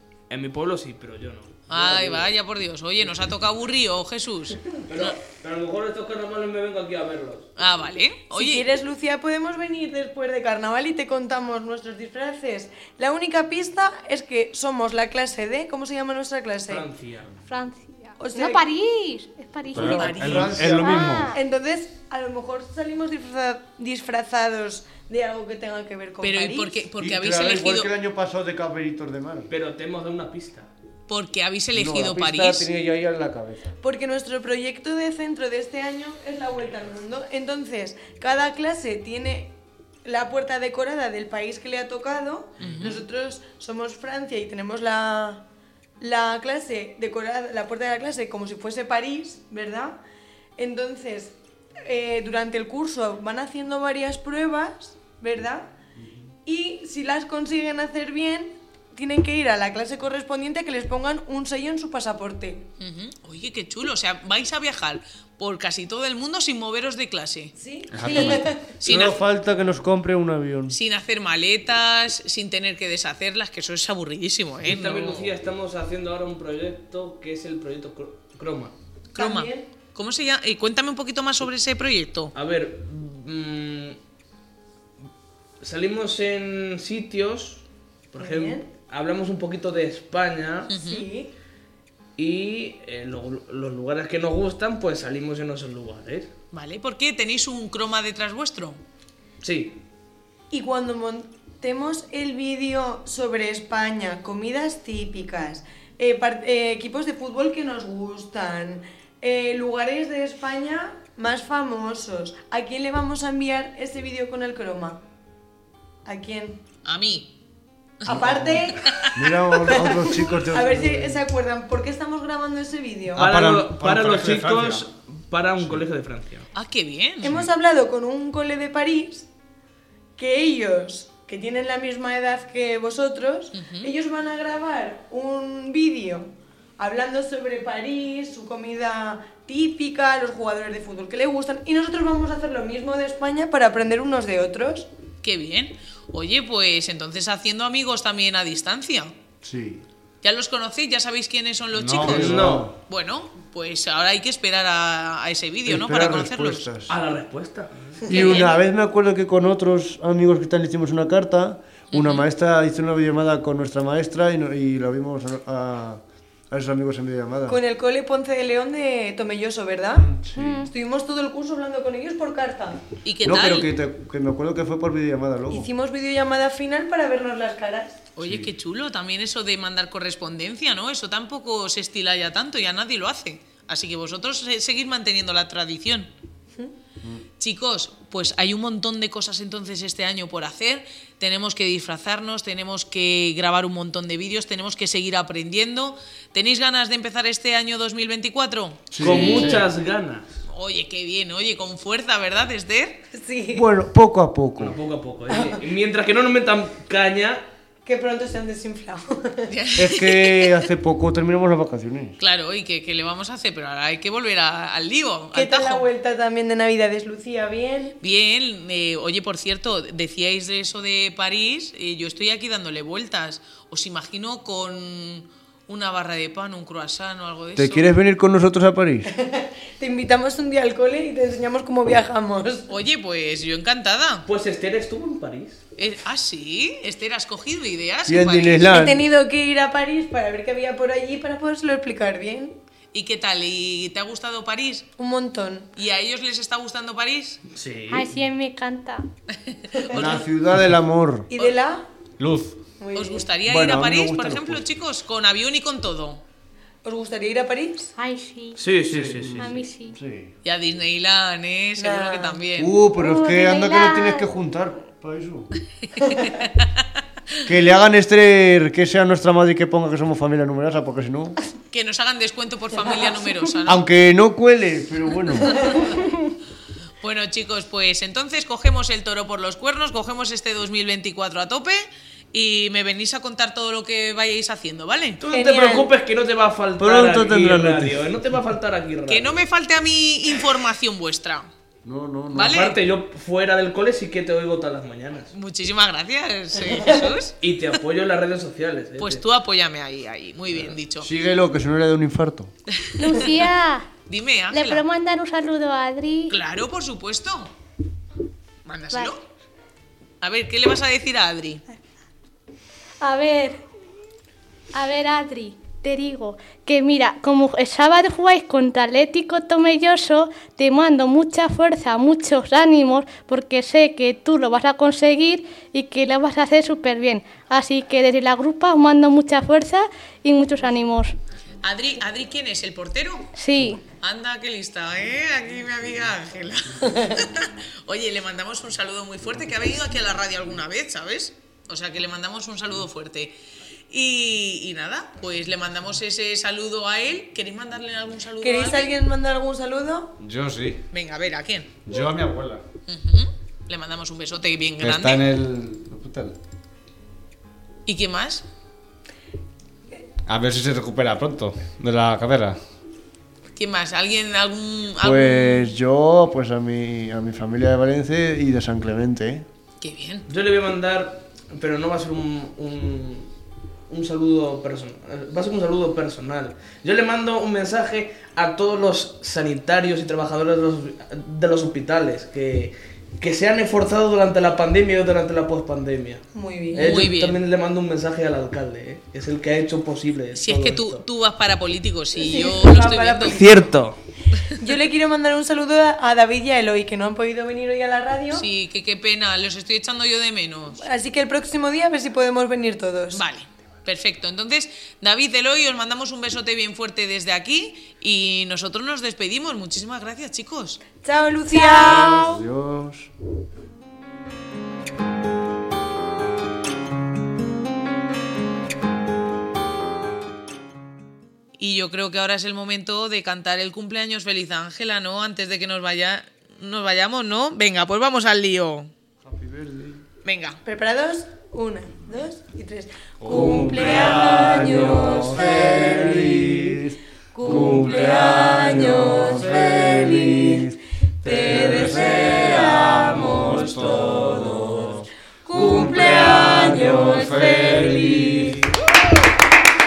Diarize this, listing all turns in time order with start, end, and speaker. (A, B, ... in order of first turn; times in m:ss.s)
0:00.3-0:02.3 A
0:01.7-0:05.2 B
0:04.9-0:07.5 A
0:07.6-0:08.6 B
0:08.3-0:16.9 C
0:16.7-0:17.4 A
0:17.4-0:21.4 D
0:18.2-0:18.6 C
0:19.7-0:21.4 E
0:19.8-0:21.2 F
0:19.9-0:20.6 B
0:20.0-0:20.5 C
0:21.3-0:26.8 C
0:26.2-0:27.9 B
0:27.0-0:29.5 F
0:29.5-0:30.7 A
0:31.1-0:32.7 B
0:31.7-0:33.8 F
0:33.8-0:45.4 C
0:42.6-0:43.0 B
0:46.0-0:50.0 C
0:50.6-0:55.7 C
0:56.0-0:56.3 F
0:56.4-1:02.6 C
1:02.8-1:07.5 B
1:07.6-1:08.8 C
1:07.9-1:09.0 E
1:08.0-1:09.2 B
1:08.9-1:10.8 F
1:10.7-1:15.0 B
1:14.7-1:18.8 A
1:19.2-1:22.3 B
1:19.2-1:19.7 C
1:22.4-1:24.0 A
1:25.6-1:30.7 A
1:28.2-1:28.7 C
1:30.7-1:31.0 B
1:30.7-1:31.3 C
1:32.2-1:36.3 A
1:36.5-1:38.8 B
1:39.4-1:39.8 A
1:40.5-1:55.0 C
1:56.0-1:56.6 C
1:56.8-1:57.3 B
1:58.0-1:58.9 C
1:58.1-1:58.6 F
1:58.8-1:59.9 B
1:59.1-2:01.2 F
1:59.6-2:03.3 C
2:03.1-2:04.9 E
2:03.2-2:06.5 A
2:06.6-2:07.4 B
2:07.2-2:09.3 C
2:10.2-2:24.9 C
2:13.6-2:13.9 B
2:25.2-2:29.1 B
2:29.4-2:29.8 F
2:30.2-2:36.7 B
2:31.7-2:32.4 E
2:32.0-2:32.8 F
2:32.0-2:32.7 A
2:35.7-2:37.0 F
2:36.9-2:38.0 A
2:38.1-2:38.5 C
2:38.1-2:47.6 F
2:38.1-2:38.5 B
2:41.9-2:42.2 B
2:47.5-2:52.9 C
2:49.9-2:50.7 F
2:50.4-2:50.7 D
2:53.0-2:53.7 B
2:53.2-2:55.7 F
2:55.5-2:58.1 C
2:58.2-3:06.1 B
3:07.4-3:19.6 B
3:18.9-3:19.7 F
3:19.0-3:20.4 A
3:20.5-3:23.0 B
3:23.1-3:23.7 C
3:23.5-3:24.8 F
3:24.6-3:27.5 A
3:25.3-3:25.6 C
3:27.8-3:29.5 C
3:29.5-3:30.6 B
3:29.8-3:32.2 F
3:32.2-3:35.9 B
3:35.3-3:38.0 C
3:38.0-3:47.9 B
3:47.6-3:49.1 F
3:49.1-3:52.7 C
3:52.7-3:54.3 B
3:54.3-3:55.6 A
3:55.8-3:58.8 B
3:58.1-3:59.0 F
3:58.7-4:02.6 C
4:02.9-4:04.9 B
4:05.0-4:05.7 C
4:05.8-4:07.4 B
4:07.5-4:08.2 A
4:07.9-4:09.1 D
4:09.5-4:10.3 B
4:09.7-4:10.1 C
4:09.9-4:11.3 F
4:11.3-4:11.9 C
4:12.2-4:12.6 E
4:12.8-4:13.2 C
4:12.9-4:16.2 B
4:13.4-4:14.8 F
4:16.8-4:17.9 C
4:18.0-4:18.6 D
4:18.6-4:19.5 A
4:18.9-4:20.3 F
4:19.4-4:20.0 D
4:20.4-4:22.7 B
4:21.8-4:22.5 C
4:22.6-4:25.5 F
4:22.9-4:24.3 D
4:25.8-4:26.7 B
4:26.0-4:26.4 C
4:27.4-4:31.4 F
4:31.7-4:33.8 B
4:32.8-4:33.4 C
4:33.7-4:35.7 F
4:35.6-4:35.9 C
4:37.0-4:45.2 B
4:45.2-4:49.4 A
4:45.3-4:45.9 C
4:46.8-4:48.2 F
4:49.1-4:51.5 B
4:51.8-4:52.7 F
4:52.3-4:52.8 B
4:52.4-4:55.3 A
4:55.3-4:57.4 B
4:57.4-4:59.2 A
4:59.0-5:01.1 B
5:01.0-5:02.5 F
5:02.8-5:03.5 B
5:03.0-5:03.9 D
5:04.1-5:04.9 B
5:04.5-5:06.3 D
5:06.3-5:07.5 B
5:08.6-5:09.2 B
5:10.2-5:11.6 B
5:13.0-5:13.6 D
5:14.7-5:31.1 D
5:31.6-5:43.4 B
5:33.4-5:33.8 D
5:43.9-5:49.0 B
5:48.4-5:50.2 C
5:50.2-5:50.8 E
5:50.9-5:51.8 B
5:51.9-5:52.6 E
5:52.9-5:55.3 B
5:54.8-5:56.4 E
5:57.9-5:58.5 B
6:00.3-6:02.6 E
6:03.6-6:05.7 B
6:05.0-6:09.5 F
6:09.8-6:10.3 B
6:10.3-6:13.3 A
6:13.9-6:31.1 A
6:26.3-6:27.0 C
6:26.7-6:27.4 B
6:30.3-6:33.6 B
6:32.2-6:33.7 C
6:33.2-6:34.0 A
6:34.4-6:38.5 C
6:38.3-6:40.8 B
6:40.8-6:43.2 C
6:43.1-6:50.8 B
6:51.0-6:52.2 C
6:51.5-6:52.4 D
6:51.8-6:53.1 F
7:01.6-7:08.9 B
7:09.2-7:10.0 F
7:10.2-7:10.6 B
7:10.6-7:16.8 C
7:13.2-7:14.8 E
7:13.3-7:24.9 F
7:14.1-7:14.6 A
7:17.3-7:20.7 C
7:21.2-7:24.7 C
7:21.2-7:28.7 E
7:25.5-7:28.7 C
7:25.7-7:27.1 F